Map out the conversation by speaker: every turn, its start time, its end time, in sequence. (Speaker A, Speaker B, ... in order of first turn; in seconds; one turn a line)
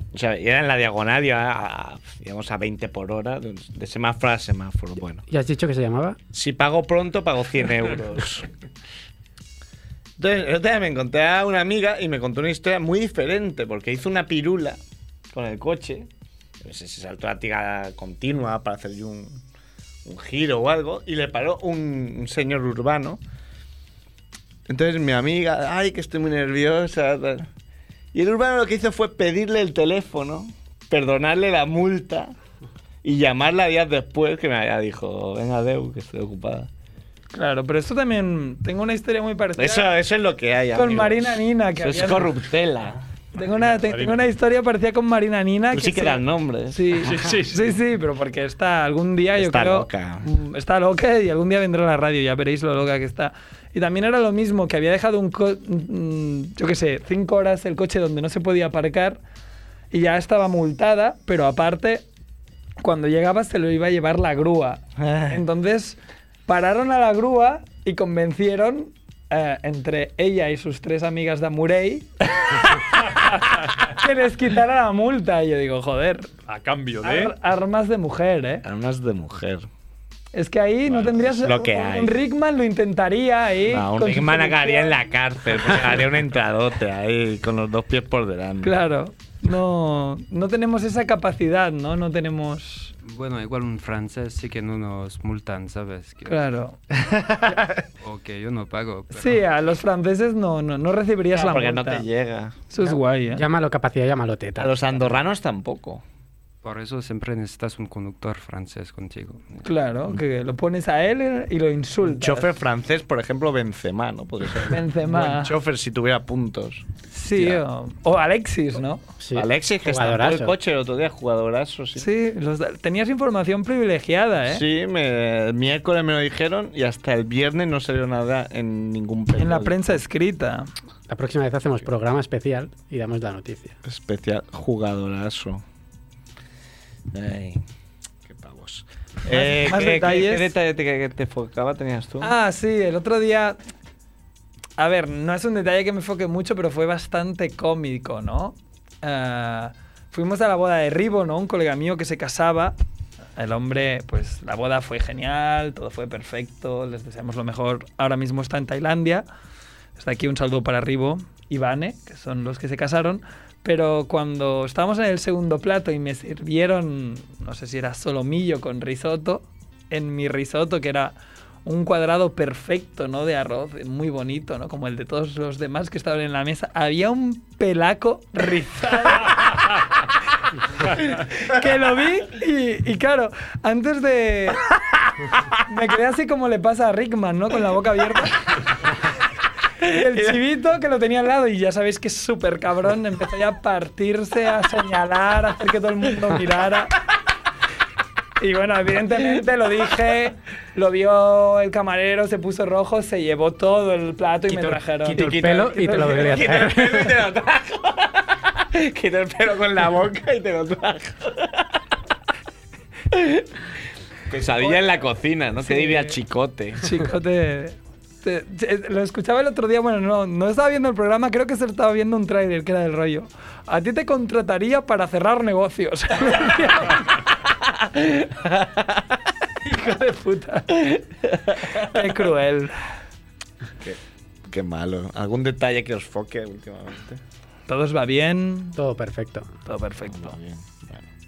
Speaker A: 0.1-5.2
Speaker B: 5.3-6.2
Speaker A: 6.3-8.5
Speaker A: 10.2-14.8
Speaker A: 15.3-16.1
Speaker A: 16.6-19.4
Speaker A: 20.1-23.2
Speaker A: 24.7-27.5
Speaker A: 28.1-32.3
Speaker A: 33.0-36.7
Speaker C: 37.3-39.9
Speaker A: 39.6-43.0
Speaker C: 40.8-42.3
Speaker C: 43.3-59.2
Speaker D: 43.4-44.2
Speaker A: 45.7-46.9
Speaker D: 47.0-47.8
Speaker A: 49.4-50.3
Speaker C: 59.9-62.0
Speaker C: 62.8-76.3
Speaker A: 65.0-65.4
Speaker D: 76.5-77.3
Speaker C: 77.0-78.6
Speaker A: 78.6-79.7
Speaker C: 80.3-85.0
Speaker A: 81.2-82.2
Speaker A: 83.7-88.8
Speaker C: 88.6-92.9
Speaker E: 93.0-96.4
Speaker C: 96.2-96.8
Speaker A: 97.1-97.7
Speaker E: 98.0-99.4
Speaker C: 99.1-102.0
Speaker A: 101.3-102.6
Speaker C: 102.7-103.4
Speaker B: 102.8-105.1
Speaker A: 104.6-106.0
Speaker E: 106.6-109.6
Speaker C: 109.6-112.5
Speaker A: 112.0-116.8
Speaker C: 114.7-115.5
Speaker C: 117.1-119.0
Speaker A: 117.4-117.6
Speaker B: 119.2-120.5
Speaker A: 119.3-122.1
Speaker C: 122.0-124.6
Speaker A: 124.5-130.0
Speaker C: 129.4-130.7
Speaker B: 131.1-133.8
Speaker A: 133.8-135.6
Speaker A: 137.1-137.6
Speaker A: 138.3-142.3
Speaker C: 139.3-140.5
Speaker C: 142.2-143.6
Speaker C: 144.8-152.8
Speaker C: 153.4-159.3
Speaker C: 159.9-171.1
Speaker C: 171.6-179.5
Speaker C: 180.9-184.6
Speaker C: 185.7-188.6
Speaker C: 189.8-197.0
Speaker C: 198.4-206.5
Speaker B: 204.5-207.2
Speaker A: 205.2-211.7
Speaker A: 213.1-213.5
Speaker A: 214.3-216.9
Speaker C: 215.6-216.2
Speaker C: 216.8-227.2
Speaker A: 228.4-228.8
Speaker C: 229.6-231.0
Speaker C: 231.6-232.8
Speaker A: 231.6-232.0
Speaker A: 233.8-237.2
Speaker C: 237.7-238.8
Speaker B: 238.8-239.5
Speaker C: 239.6-240.4
Speaker A: 240.1-241.1